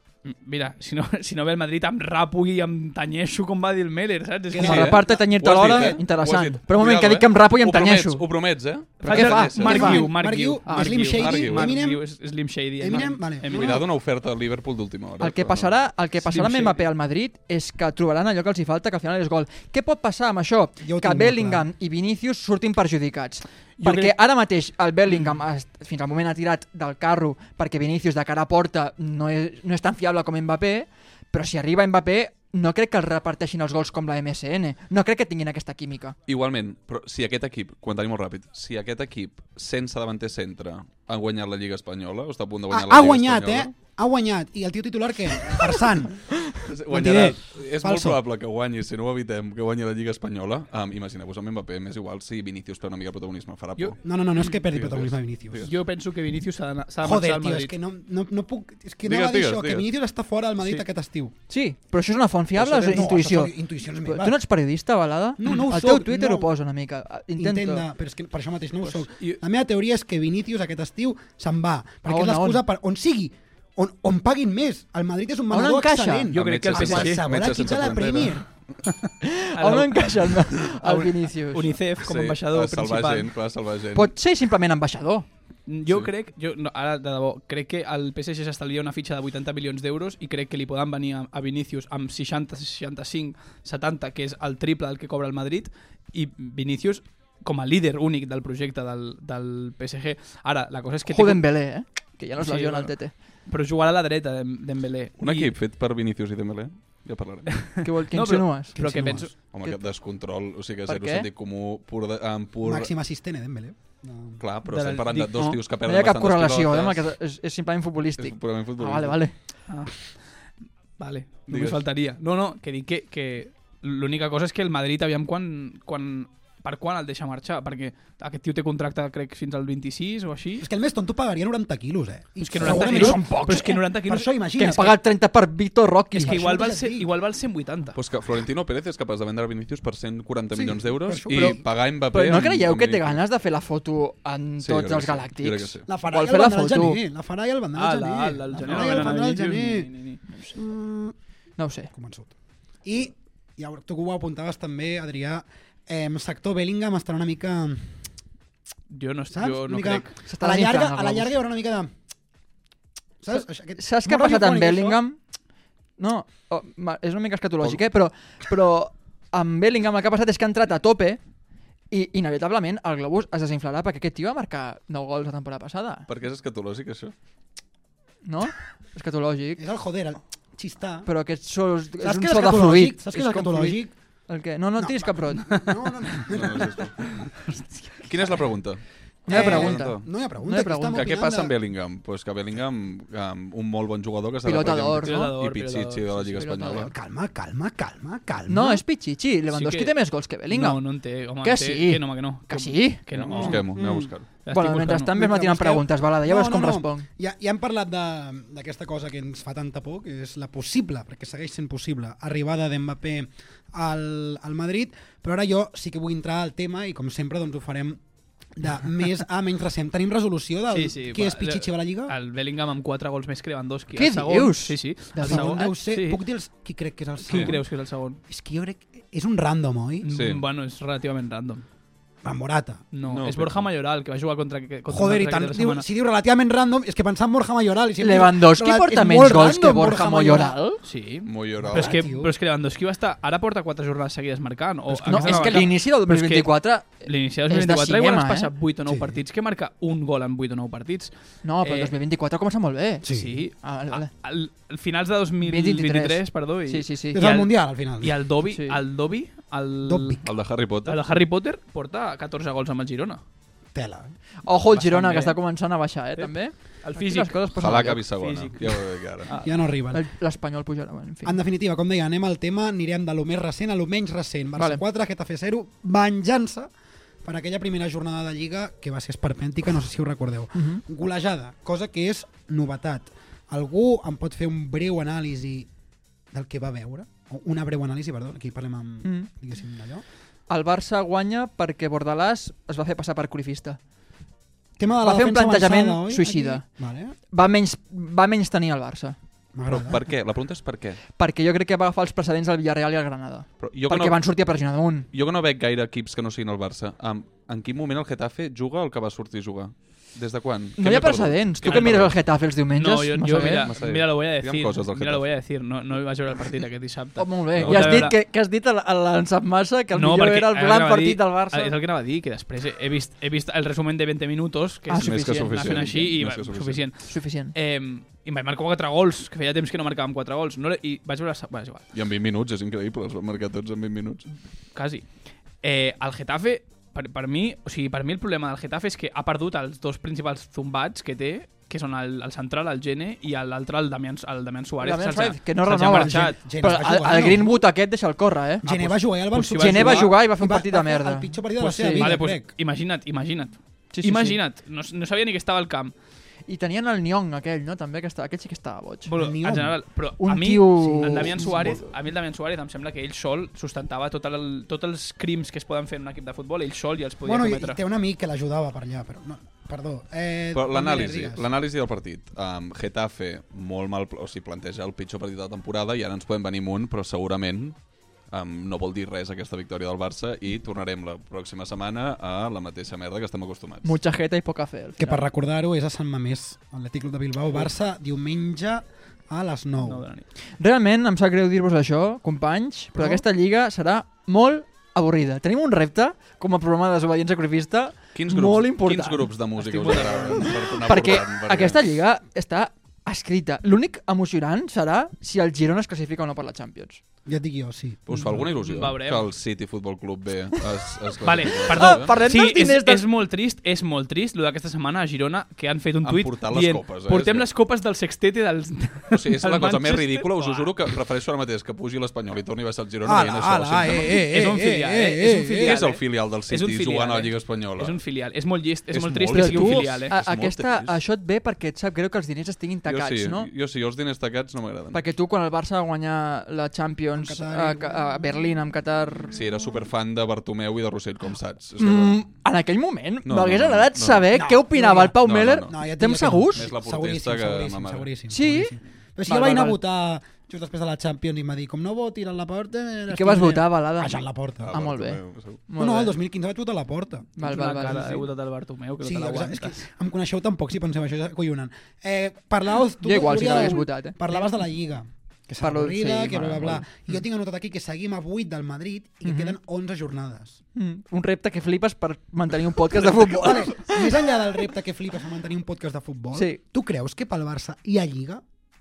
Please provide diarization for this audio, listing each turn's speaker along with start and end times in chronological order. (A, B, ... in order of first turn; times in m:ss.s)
0:00.2-0:04.9 A
0:04.5-0:06.0 B
0:04.6-0:10.0 C
0:04.6-0:08.3 D
0:09.0-0:13.8 A
0:09.0-0:10.0 D
0:09.6-0:12.0 B
0:10.7-0:10.9 D
0:11.0-0:11.8 C
0:12.8-0:13.8 B
0:13.5-0:15.7 C
0:15.2-0:36.2 D
0:16.2-0:16.8 A
0:20.8-0:21.6 B
0:23.8-0:24.1 A
0:36.3-0:43.7 C
0:42.7-0:48.2 B
0:46.6-0:54.0 C
0:54.0-0:55.7 B
0:54.5-0:55.8 C
0:55.6-0:57.7 A
0:57.0-1:01.3 B
0:59.0-0:59.9 C
1:01.5-1:07.9 D
1:02.6-1:04.4 B
1:05.4-1:06.5 B
1:07.4-1:18.4 B
1:12.1-1:12.6 D
1:15.5-1:16.3 D
1:16.3-1:17.2 A
1:16.3-1:18.4 C
1:19.2-1:21.8 D
1:19.6-1:23.3 A
1:22.0-1:24.1 C
1:23.9-1:25.3 D
1:25.7-1:41.5 A
1:41.1-1:43.1 D
1:42.4-1:42.9 A
1:43.5-1:45.5 A
1:45.2-1:47.8 C
1:47.6-1:49.3 A
1:47.8-1:49.8 D
1:48.8-1:49.3 B
1:49.5-1:52.9 C
1:50.9-1:51.3 D
1:52.6-1:54.4 B
1:54.4-1:57.0 C
1:54.7-1:55.6 A
1:55.8-1:59.4 D
1:58.2-1:59.2 C
1:59.7-2:00.1 A
2:01.0-2:10.7 A
2:01.5-2:01.8 C
2:10.6-2:15.0 B
2:12.4-2:14.8 A
2:12.6-2:13.8 D
2:14.6-2:16.5 D
2:16.1-2:17.1 B
2:16.2-2:18.0 A
2:18.0-2:23.2 C
2:20.5-2:21.6 B
2:21.3-2:27.0 D
2:24.6-2:25.9 C
2:25.9-2:29.9 B
2:27.8-2:30.2 A
2:28.7-2:29.0 C
2:30.5-2:31.1 B
2:31.6-2:31.9 D
2:31.9-2:32.3 B
2:32.8-2:38.0 B
2:38.9-2:40.1 A
2:39.3-2:41.9 B
2:40.3-2:41.3 D
2:43.2-2:45.0 B
2:43.3-2:45.2 D
2:46.0-2:51.2 D
2:51.9-2:56.1 D
2:56.1-2:57.1 C
2:58.3-2:59.6 D
2:59.6-3:01.1 B
3:01.1-3:05.6 D
3:02.0-3:03.9 B
3:04.8-3:06.9 B
3:06.3-3:07.2 C
3:07.3-3:08.0 A
3:08.0-3:10.0 C
3:09.3-3:11.1 D
3:09.3-3:11.6 B
3:10.9-3:16.9 C
3:14.4-3:15.3 D
3:15.0-3:16.4 A
3:16.4-3:16.9 D
3:16.9-3:18.8 B
3:18.5-3:20.8 D
3:19.5-3:23.8 A
3:21.4-3:23.6 D
3:23.1-3:24.3 C
3:23.4-3:24.1 B
3:24.4-3:25.1 A
3:24.5-3:27.1 D
3:25.1-3:38.0 B
3:38.6-3:42.2 B
3:40.7-3:46.2 A
3:43.9-3:45.7 D
3:45.2-3:47.6 B
3:47.2-3:48.2 A
3:48.3-3:50.1 B
3:50.0-3:51.6 A
3:50.1-3:50.4 C
3:52.2-3:52.8 B
3:52.9-3:55.9 A
3:53.0-3:53.7 C
3:54.9-4:00.6 B
3:58.0-4:00.8 D
4:00.8-4:11.9 A
4:01.3-4:02.0 C
4:01.6-4:02.3 B
4:05.0-4:05.6 B
4:05.1-4:08.5 D
4:08.9-4:09.2 B
4:11.4-4:13.1 D
4:13.0-4:13.4 B
4:13.1-4:17.5 A
4:13.6-4:14.1 D
4:15.4-4:17.2 D
4:17.1-4:18.2 B
4:18.0-4:20.2 A
4:18.5-4:18.8 D
4:19.8-4:20.2 B
4:20.2-4:21.0 C
4:20.8-4:23.2 A
4:23.7-4:24.2 B
4:24.4-4:28.0 D
4:24.7-4:25.4 A
4:26.2-4:27.4 A
4:27.6-4:29.3 C
4:28.2-4:29.6 A
4:29.4-4:30.0 B
4:29.9-4:31.4 D
4:31.2-4:36.7 B
4:34.6-4:34.8 D
4:37.2-4:45.7 B
4:40.5-4:40.8 D
4:46.3-4:50.0 B
4:49.0-4:49.3 D
4:50.5-4:53.8 D
4:54.8-4:57.2 B
4:55.0-4:56.6 D
4:57.3-4:59.2 D
4:59.5-5:00.1 B
4:59.7-5:01.0 C
5:01.2-5:05.1 D
5:03.6-5:04.2 C
5:05.1-5:12.2 C
5:10.8-5:13.7 D
5:11.6-5:12.1 A
5:12.7-5:18.2 A
5:13.4-5:15.2 C
5:17.2-5:21.8 D
5:17.6-5:18.1 C
5:19.9-5:31.8 A
5:24.9-5:25.8 D
5:25.0-5:26.8 C
5:27.1-5:27.5 D
5:31.9-5:34.2 C
5:34.8-5:35.1 A
5:35.6-5:46.4 A
5:44.8-5:48.7 D
5:45.8-5:47.6 B
5:48.6-5:52.5 B
5:48.7-5:50.1 A
5:49.6-5:52.2 D
5:51.9-5:55.9 A
5:53.9-5:54.4 D
5:56.5-5:59.1 D
5:59.1-6:07.8 A
5:59.2-5:59.8 B
6:00.2-6:01.8 D
6:00.8-6:01.8 B
6:07.2-6:11.5 B
6:10.5-6:17.8 C
6:18.3-6:24.0 C
6:23.8-6:25.2 D
6:25.0-6:30.1 B
6:29.8-6:30.3 A
6:30.6-6:39.3 D
6:33.0-6:33.2 B
6:38.1-6:41.8 C
6:39.6-6:40.7 A
6:40.7-6:47.0 D
6:47.3-6:48.0 B
6:48.1-6:52.2 C
6:48.1-6:49.3 A
6:51.2-7:00.7 A
6:51.7-6:53.0 D
6:56.0-6:57.5 C
6:59.1-7:04.2 C
7:03.0-7:05.8 B
7:04.0-7:10.1 A
7:05.6-7:08.0 C
7:08.9-7:11.0 C
7:09.3-7:13.5 D
7:12.9-7:15.0 C
7:14.9-7:19.3 D
7:17.2-7:18.0 B
7:19.3-7:22.2 C
7:21.8-7:26.7 D
7:23.2-7:24.3 C
7:24.3-7:34.8 B
7:25.2-7:25.7 C
7:26.5-7:28.1 C
7:28.3-7:29.8 D
7:33.1-7:34.2 D
7:34.6-7:35.6 C
7:34.7-7:36.2 D
7:35.8-7:38.2 B
7:37.4-7:38.2 D
7:37.4-7:39.8 A
7:39.0-7:50.6 B
7:43.0-7:44.5 D
7:45.6-7:46.9 D
7:49.2-7:49.6 D
7:50.8-7:54.3 D
7:53.0-7:58.4 B
7:56.3-7:56.6 D